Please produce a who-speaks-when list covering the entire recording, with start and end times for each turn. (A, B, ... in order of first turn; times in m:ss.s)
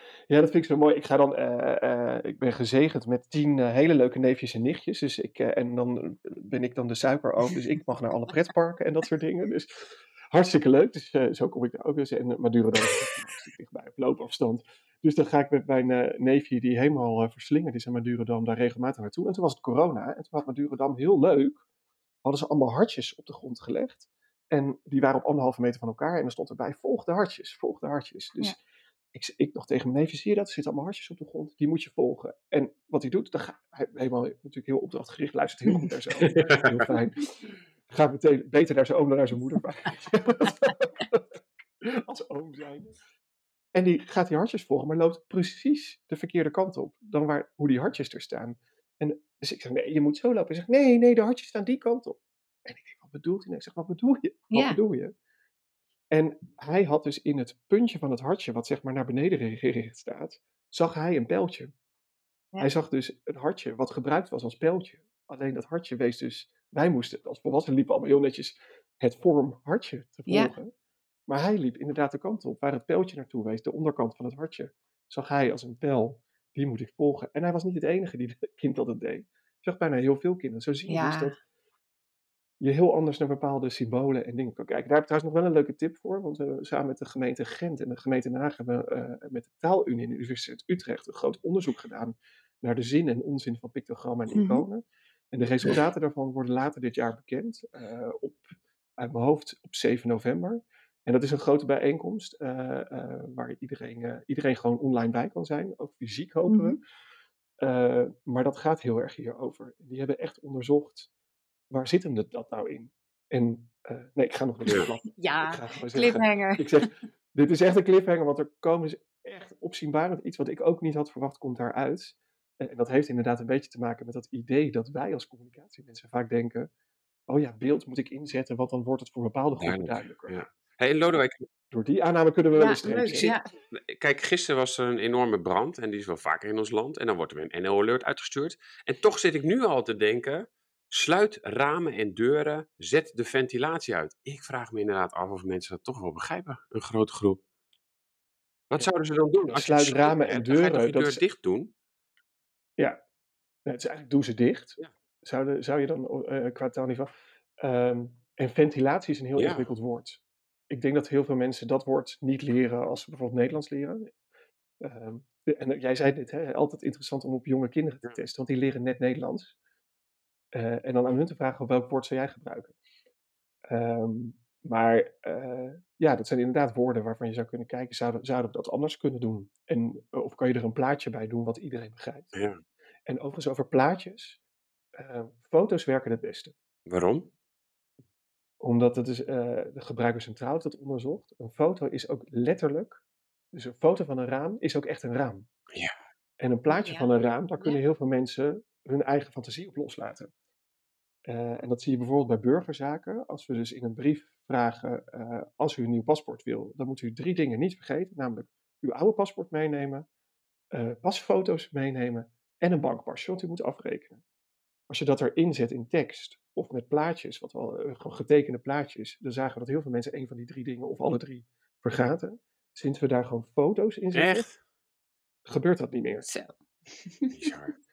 0:00.3-0:21.6 A
0:22.2-0:28.6 A
0:29.1-0:43.0 A
0:36.3-0:36.6 B
0:43.7-0:55.1 A
0:54.5-0:54.8 C
0:56.1-1:01.7 A
1:02.6-1:10.7 A
1:10.3-1:10.5 C
1:11.3-1:21.4 A
1:20.9-1:21.4 C
1:22.6-1:38.4 A
1:34.3-1:34.6 C
1:39.0-1:46.8 A
1:46.5-1:46.8 C
1:47.6-1:51.1 A
1:51.7-2:06.7 A
1:55.1-1:56.9 C
2:07.3-2:10.4 A
2:09.6-2:11.4 B
2:11.7-2:13.3 A
2:12.5-2:13.4 C
2:13.0-2:27.4 B
2:28.7-2:31.7 B
2:29.5-2:31.2 A
2:33.6-2:44.1 A
2:39.4-2:39.7 B
2:44.8-2:49.6 A
2:50.5-2:52.8 A
2:53.7-3:02.3 A
3:02.4-3:02.6 B
3:03.1-3:04.4 A
3:05.0-3:06.5 A
3:06.9-3:07.3 B
3:08.6-3:13.0 A
3:13.5-3:15.5 A
3:16.4-3:20.3 A
3:16.7-3:17.8 C
3:21.3-3:30.1 A
3:30.7-3:34.2 A
3:34.9-3:44.5 A
3:44.1-3:44.6 B
3:45.5-3:46.3 A
3:46.2-3:47.3 C
3:47.3-3:47.8 B